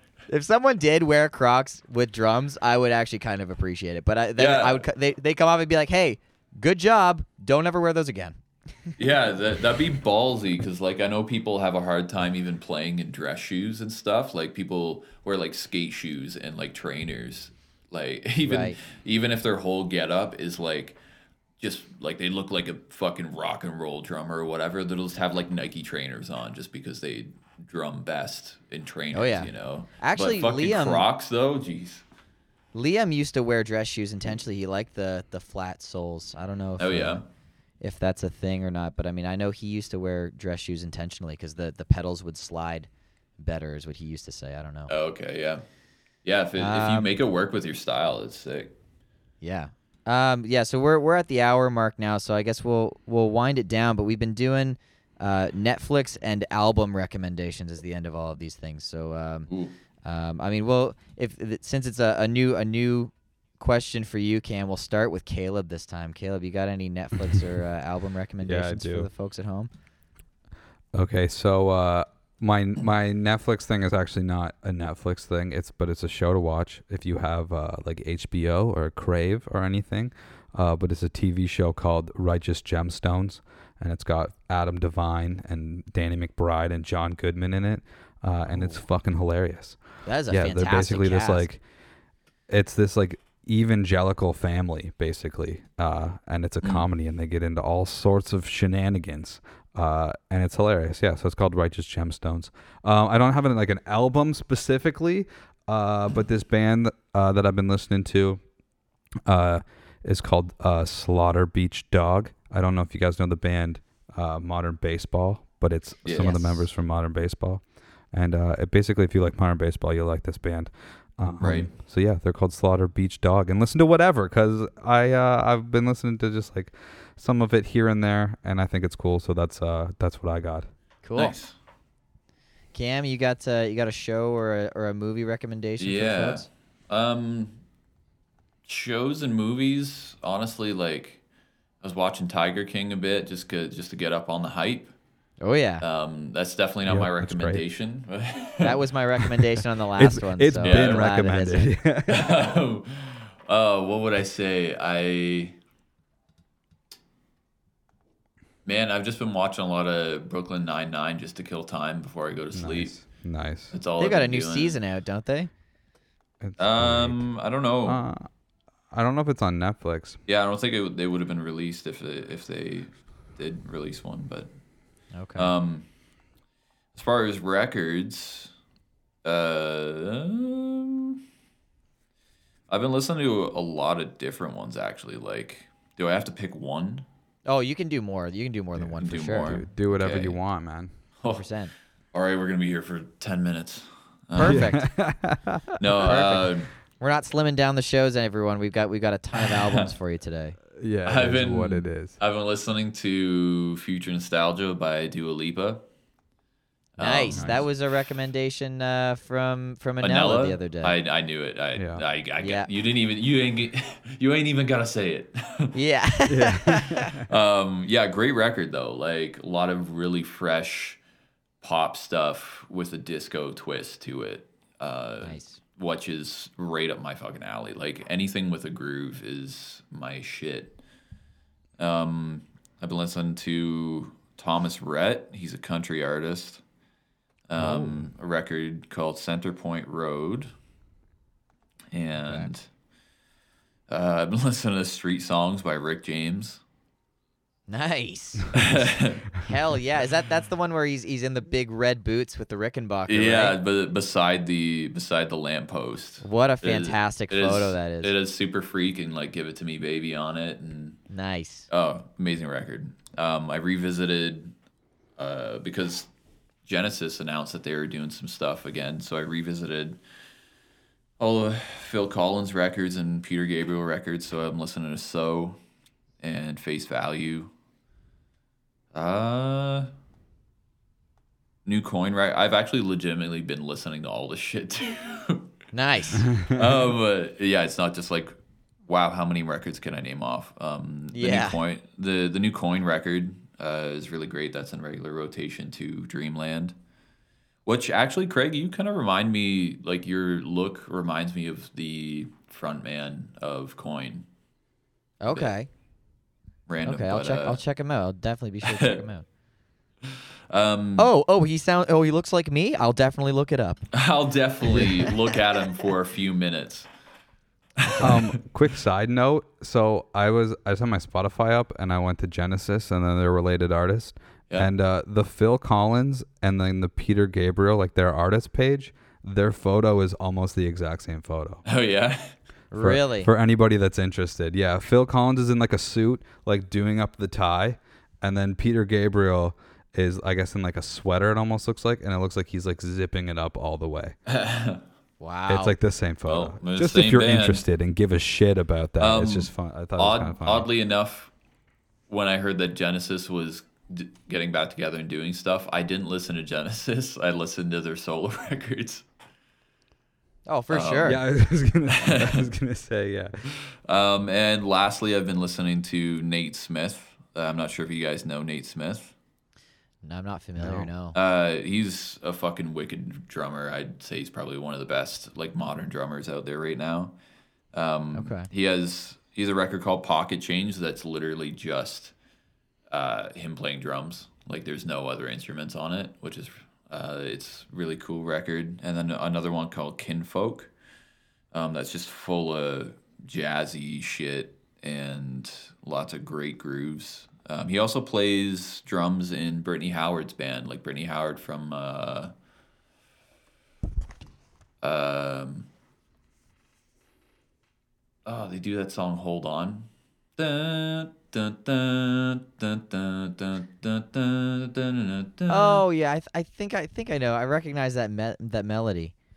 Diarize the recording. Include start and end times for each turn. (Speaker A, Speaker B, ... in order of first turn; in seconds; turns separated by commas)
Speaker A: 0.3-8.4, Speaker B: 4.4-4.8, Speaker B: 9.0-21.0, Speaker A: 18.4-18.8, Speaker B: 21.6-32.0, Speaker A: 29.1-31.1, Speaker A: 32.7-37.2, Speaker B: 36.8-37.2, Speaker A: 37.8-44.9, Speaker B: 44.9-45.6, Speaker B: 46.2-48.7, Speaker A: 46.6-47.1, Speaker A: 49.4-59.5, Speaker A: 60.0-69.7, Speaker C: 68.4-69.1, Speaker C: 70.9-91.6, Speaker A: 90.1-91.5, Speaker C: 92.5-108.4, Speaker C: 109.3-130.7, Speaker B: 116.0-116.4, Speaker A: 116.2-116.7, Speaker B: 121.4-121.7, Speaker A: 131.0-131.3, Speaker B: 131.2-131.5, Speaker A: 132.7-136.5, Speaker B: 135.8-137.6, Speaker B: 138.7-141.2, Speaker B: 141.8-144.9, Speaker A: 145.4-145.8, Speaker B: 145.8-148.8, Speaker C: 146.9-147.6, Speaker A: 148.6-151.7, Speaker C: 150.0-152.5, Speaker B: 150.6-151.1, Speaker B: 152.1-155.6, Speaker B: 158.7-163.0, Speaker C: 162.5-163.7, Speaker B: 163.7-164.8, Speaker A: 164.0-165.5, Speaker C: 166.4-167.3, Speaker B: 166.6-168.0, Speaker C: 167.9-168.3, Speaker C: 168.9-170.2, Speaker B: 170.3-174.5, Speaker A: 175.1-175.5, Speaker B: 175.4-175.8, Speaker B: 176.9-178.5, Speaker B: 179.2-181.2, Speaker B: 182.7-187.1, Speaker A: 187.5-189.5, Speaker C: 188.8-190.9, Speaker B: 189.0-190.4, Speaker B: 191.2-191.5, Speaker A: 191.3-191.7, Speaker B: 192.1-194.7, Speaker A: 194.3-194.9, Speaker C: 194.4-195.8, Speaker B: 195.8-196.7, Speaker A: 196.0-200.6, Speaker B: 199.4-199.9, Speaker C: 200.8-202.2, Speaker B: 201.1-205.8, Speaker B: 207.0-207.7, Speaker A: 207.0-211.0, Speaker C: 207.3-207.6, Speaker B: 210.0-215.8, Speaker C: 211.8-212.0, Speaker A: 212.4-212.7, Speaker A: 215.7-217.1, Speaker C: 216.3-217.3, Speaker B: 217.3-221.0, Speaker B: 221.6-230.8, Speaker A: 225.2-225.6, Speaker B: 231.8-236.6, Speaker B: 237.5-240.5, Speaker A: 237.6-238.0, Speaker B: 241.9-242.7, Speaker A: 242.2-242.5, Speaker B: 243.9-246.6, Speaker A: 247.7-248.9, Speaker B: 248.5-249.3, Speaker A: 249.4-253.6, Speaker B: 253.1-261.0, Speaker A: 256.2-258.1, Speaker A: 261.1-261.7, Speaker B: 261.7-264.5, Speaker B: 265.2-266.1, Speaker B: 266.6-270.0, Speaker B: 271.2-275.6, Speaker B: 276.2-277.5, Speaker B: 278.9-279.9, Speaker B: 281.6-285.5, Speaker A: 285.7-286.3, Speaker C: 286.4-286.6, Speaker B: 286.5-296.8, Speaker A: 291.1-291.6, Speaker B: 297.6-304.3, Speaker A: 305.2-305.7, Speaker B: 306.7-307.6, Speaker A: 306.8-309.2, Speaker B: 308.6-309.0, Speaker B: 310.5-311.1, Speaker A: 311.0-313.9, Speaker B: 313.9-316.9, Speaker A: 314.7-315.1, Speaker B: 317.8-318.3, Speaker C: 318.0-331.6, Speaker B: 331.7-332.4, Speaker A: 332.7-333.3, Speaker C: 332.8-344.1, Speaker B: 344.3-344.8, Speaker A: 345.2-345.8, Speaker C: 345.5-350.7, Speaker B: 346.3-347.6, Speaker B: 349.0-351.3, Speaker B: 352.1-359.1, Speaker A: 360.5-361.2, Speaker B: 360.7-361.1, Speaker C: 361.1-363.4, Speaker B: 361.9-362.5, Speaker B: 363.5-369.1, Speaker A: 370.0-371.2, Speaker C: 370.6-370.9, Speaker B: 371.1-377.1, Speaker B: 377.7-382.1, Speaker A: 378.1-378.5, Speaker B: 382.9-390.7, Speaker B: 391.5-402.3, Speaker B: 404.8-405.7, Speaker B: 408.3-415.8, Speaker A: 415.5-419.1